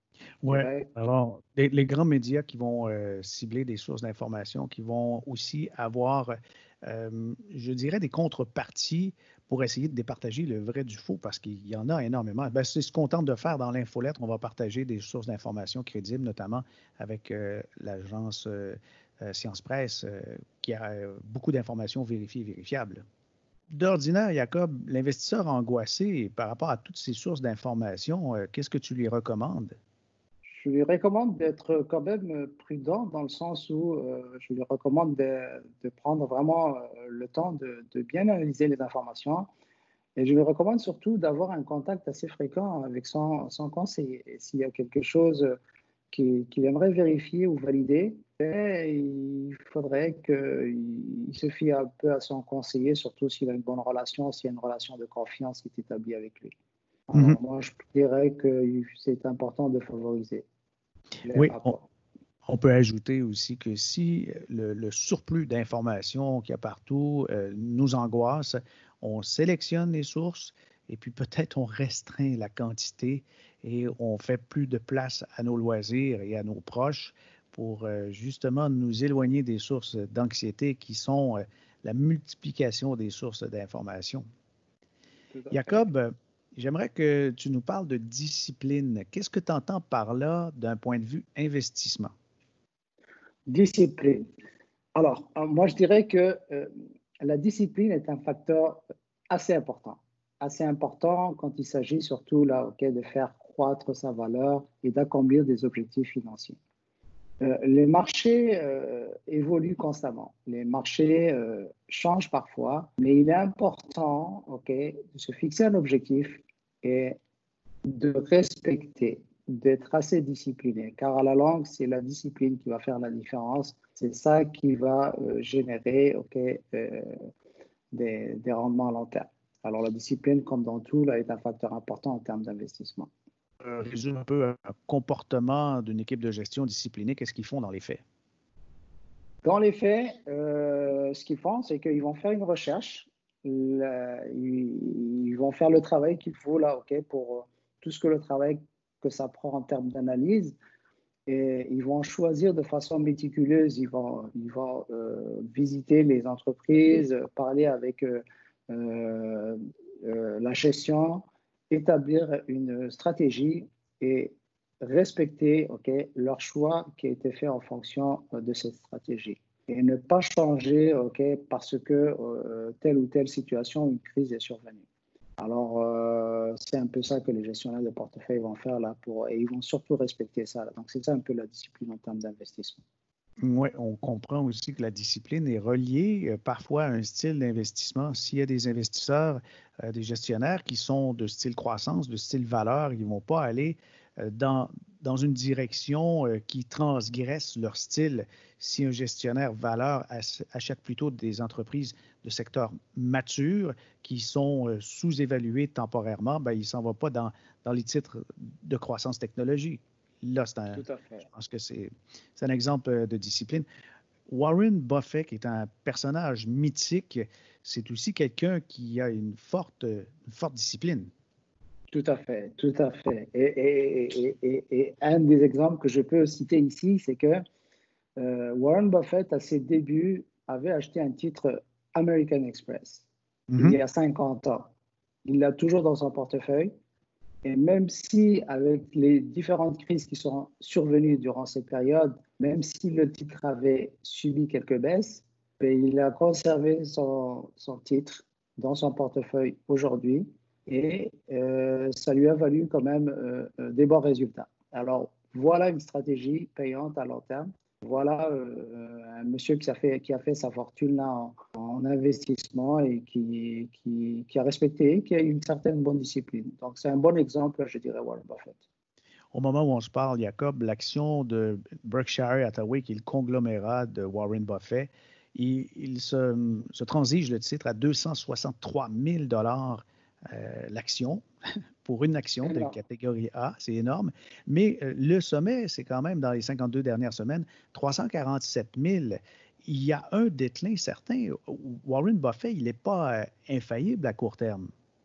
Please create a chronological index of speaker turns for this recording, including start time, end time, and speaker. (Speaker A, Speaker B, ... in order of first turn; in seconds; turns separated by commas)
Speaker A: 0.4-23.1, Speaker B: 0.5-0.9, Speaker A: 23.7-29.8, Speaker B: 30.5-39.5, Speaker B: 40.2-45.5, Speaker B: 46.1-56.5, Speaker B: 57.1-60.5, Speaker B: 61.2-61.9, Speaker A: 61.3-61.8, Speaker A: 62.5-84.3, Speaker B: 85.3-85.9, Speaker A: 85.5-92.1, Speaker B: 93.5-94.3, Speaker B: 95.0-106.6, Speaker B: 107.4-117.2, Speaker B: 117.9-127.3, Speaker B: 127.9-133.1, Speaker A: 133.6-138.0, Speaker B: 139.4-150.6, Speaker B: 151.3-174.8, Speaker B: 175.4-182.8, Speaker A: 183.4-213.7, Speaker B: 210.7-211.3, Speaker A: 214.3-221.1, Speaker B: 221.9-227.4, Speaker B: 228.2-233.1, Speaker A: 233.5-233.8, Speaker B: 233.6-234.7, Speaker B: 235.2-236.7, Speaker B: 237.4-268.6, Speaker A: 269.3-281.2, Speaker A: 281.8-294.7, Speaker B: 282.4-282.8